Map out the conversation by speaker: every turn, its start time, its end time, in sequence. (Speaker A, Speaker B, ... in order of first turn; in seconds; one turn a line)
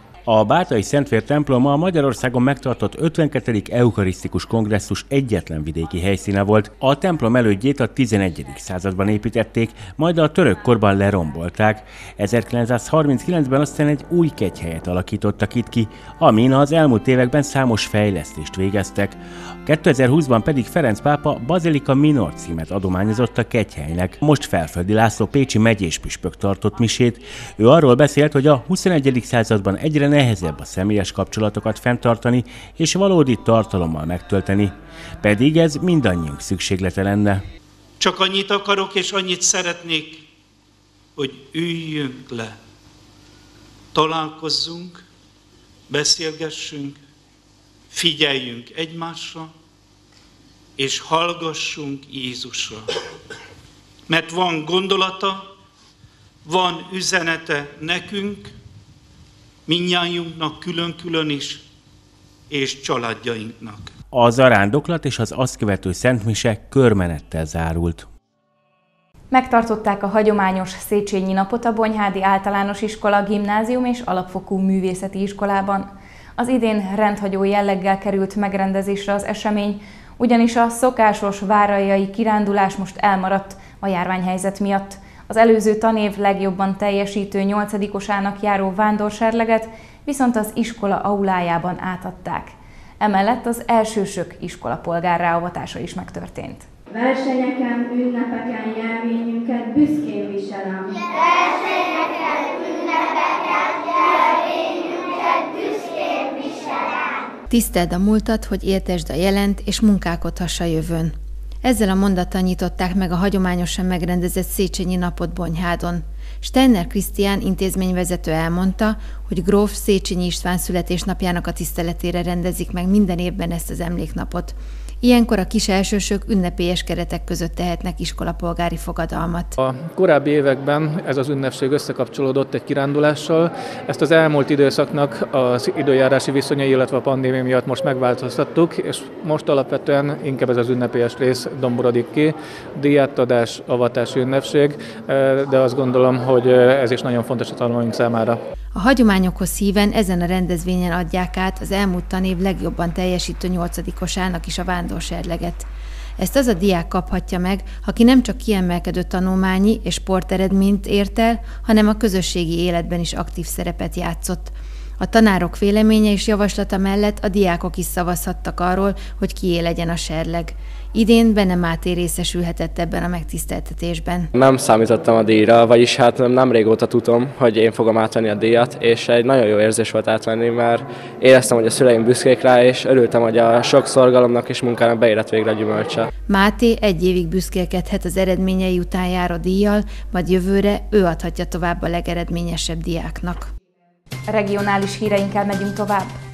Speaker A: 0.2-37.4
Speaker B: 38.0-40.2
Speaker B: 41.2-42.5
Speaker B: 43.9-45.0
Speaker B: 45.9-47.0
Speaker B: 47.9-49.5
Speaker B: 50.8-52.9
Speaker B: 54.1-55.5
Speaker B: 56.4-58.5
Speaker B: 59.7-61.6
Speaker B: 62.5-63.9
Speaker A: 64.1-68.1
Speaker C: 69.3-96.7
Speaker D: 96.9-101.1
Speaker E: 107.5-129.5
Speaker F: 129.6-148.4
Speaker E: 148.7-174.3
Speaker G: 174.3-186.1
Speaker E: 186.3-193.5
Speaker C: 194.3-196.2